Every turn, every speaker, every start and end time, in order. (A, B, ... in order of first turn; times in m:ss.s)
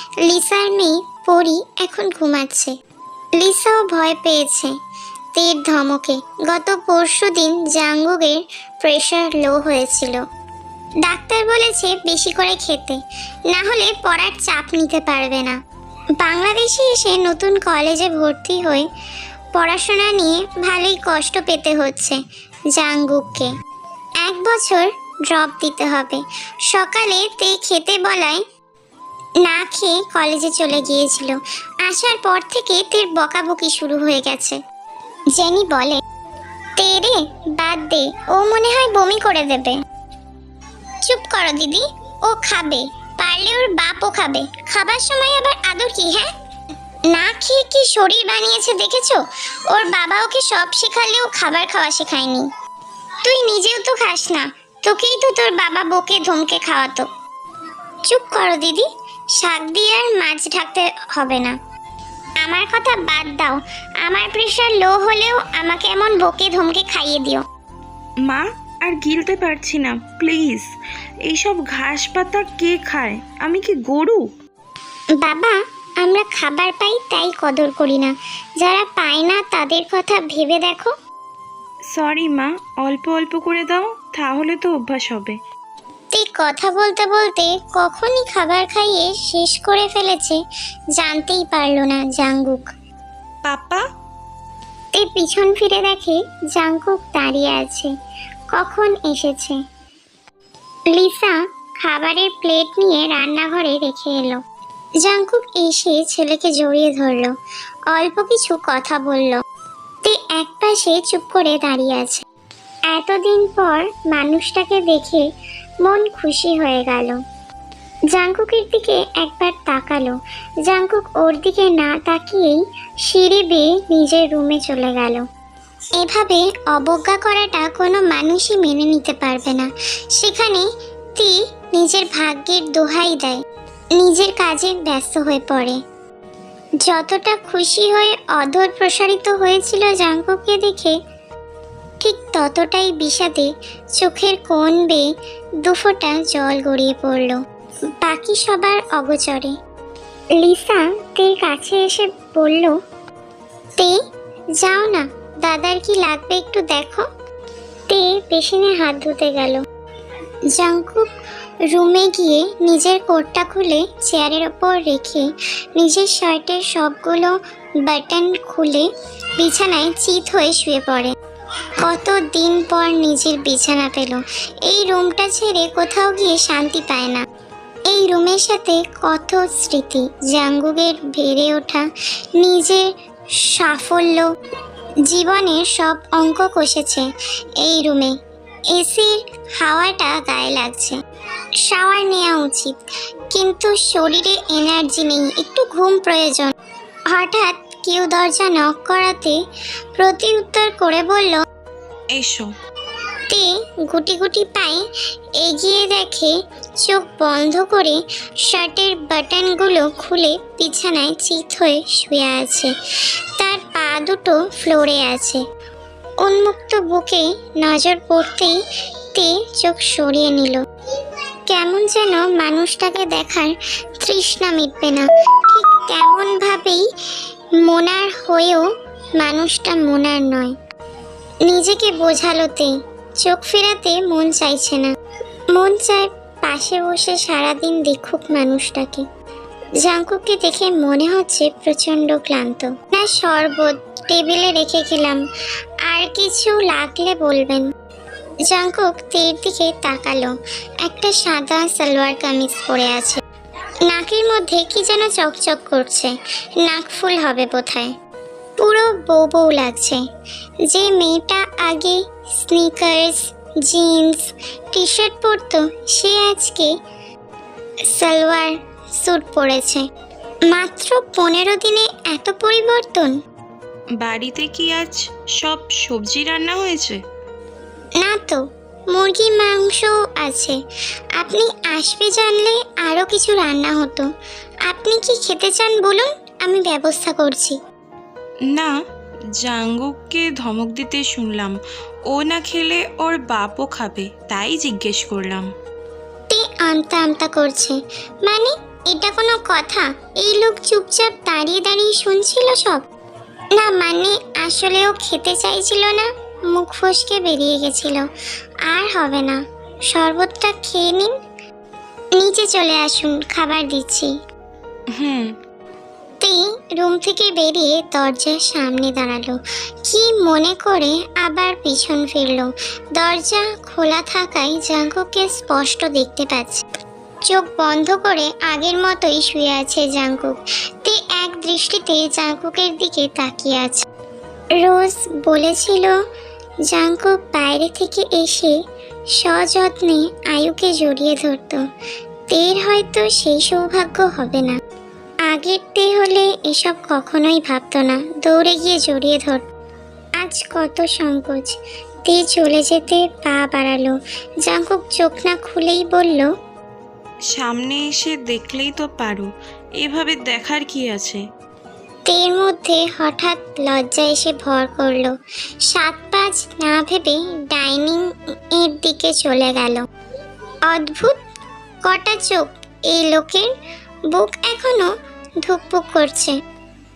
0:00.2-0:02.7 A
0:03.4-0:04.7 A
0:05.3-0:10.2 A
0:11.0-0:15.6 A
0:16.2-0:18.9 A
0:19.6-0:22.2 A
0:22.7-0:23.5 A
0:24.2-0:28.4 A
0:29.4-0:34.6 A
0:35.3-0:36.0 A
0:36.8-0:39.8 A
0:41.0-0:46.3 A
0:47.1-0:52.5 A
0:53.2-0:57.1 A
0:58.1-1:01.6 A
1:02.4-1:07.4 A
1:08.2-1:10.6 B
1:11.3-1:14.2 B
1:15.2-1:20.9 A
1:21.9-1:25.4 B
1:26.1-1:30.4 A
1:31.0-1:32.7 A
1:33.4-1:33.8 B
1:34.9-1:37.9 A
1:38.5-1:39.6 A
1:40.9-1:44.4 A
1:45.0-1:47.3 A
1:47.9-1:49.4 A
1:50.0-1:52.2 A
1:52.9-1:55.3 A
1:55.8-1:57.2 A
1:58.1-2:00.2 A
2:00.7-2:05.2 A
2:06.0-2:13.4 A
2:14.0-2:15.8 A
2:16.8-2:21.0 A
2:22.0-2:25.1 A
2:25.6-2:27.4 A
2:28.0-2:29.5 A
2:30.4-2:32.8 A
2:34.6-2:37.0 A
2:37.9-2:39.6 A
2:40.5-2:41.1 A
2:41.7-2:51.1 A
2:51.8-2:57.2 A
2:57.9-3:01.8 A
3:02.4-3:02.9 A
3:03.4-3:04.3 A
3:05.1-3:07.1 A
3:07.6-3:08.1 A
3:08.7-3:11.0 A
3:11.6-3:12.8 A
3:13.3-3:16.5 A
3:17.1-3:19.4 A
3:20.0-3:21.4 A
3:22.1-3:22.5 B
3:23.3-3:24.8 A
3:25.4-3:32.7 A
3:33.4-3:35.4 A
3:36.2-3:38.6 A
3:39.1-3:40.6 A
3:41.5-3:46.8 A
3:47.6-3:48.6 A
3:49.2-3:50.5 A
3:51.4-3:54.9 A
3:55.5-3:59.0 A
3:59.8-4:05.2 A
4:05.9-4:07.7 A
4:08.5-4:10.3 A
4:10.8-4:13.2 A
4:13.9-4:17.9 A
4:18.6-4:20.0 A
4:20.7-4:26.7 A
4:27.9-4:29.8 A
4:30.4-4:33.1 A
4:34.0-4:37.0 B
4:38.0-4:40.6 A
4:41.2-4:44.1 A
4:44.7-4:47.6 A
4:49.4-4:51.6 B
4:52.1-4:55.5 B
4:56.3-5:02.8 A
5:03.5-5:08.0 A
5:08.7-5:11.1 A
5:12.2-5:14.1 A
5:14.9-5:15.4 B
5:16.2-5:26.6 A
5:27.2-5:33.8 A
5:34.6-5:36.0 A
5:36.7-5:38.6 A
5:39.2-5:41.6 A
5:42.3-5:44.6 A
5:45.2-5:49.4 A
5:50.2-5:53.9 A
5:54.4-5:56.3 A
5:57.3-5:59.3 B
5:59.8-6:01.2 B
6:02.1-6:05.1 A
6:05.7-6:09.8 A
6:10.7-6:11.2 A
6:11.8-6:13.5 A
6:14.1-6:14.9 A
6:15.4-6:16.4 A